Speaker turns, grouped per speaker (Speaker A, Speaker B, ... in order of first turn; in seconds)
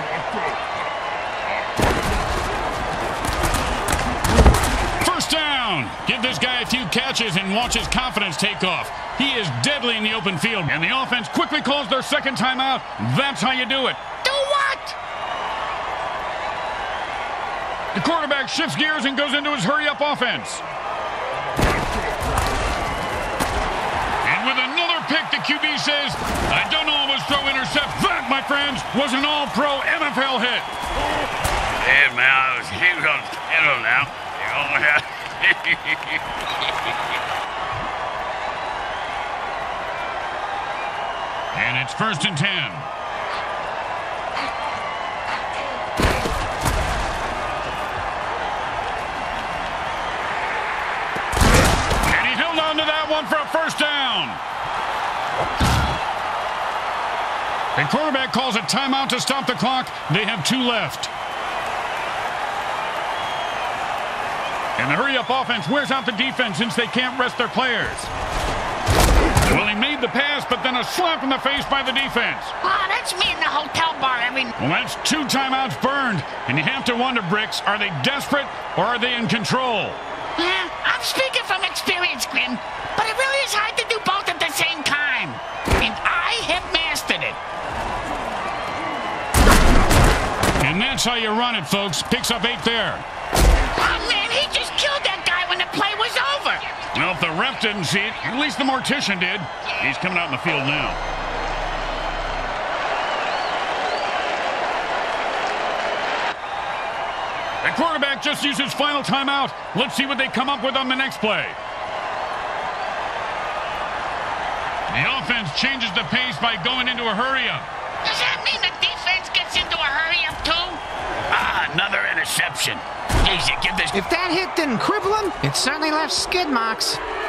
Speaker A: 5.0-14.0, 17.9-20.7, 24.2-30.7, 41.5-42.9, 52.1-54.4, 57.8-61.1, 64.8-68.1, 69.4-72.5, 74.6-80.0, 90.6-93.0, 96.9-101.0, 107.6-111.6, 114.9-117.7
Speaker B: 14.2-14.9, 72.6-74.5, 80.4-87.4, 93.7-96.9, 118.0-120.8
Speaker C: 31.8-36.2, 121.3-123.9
Speaker D: 123.9-127.0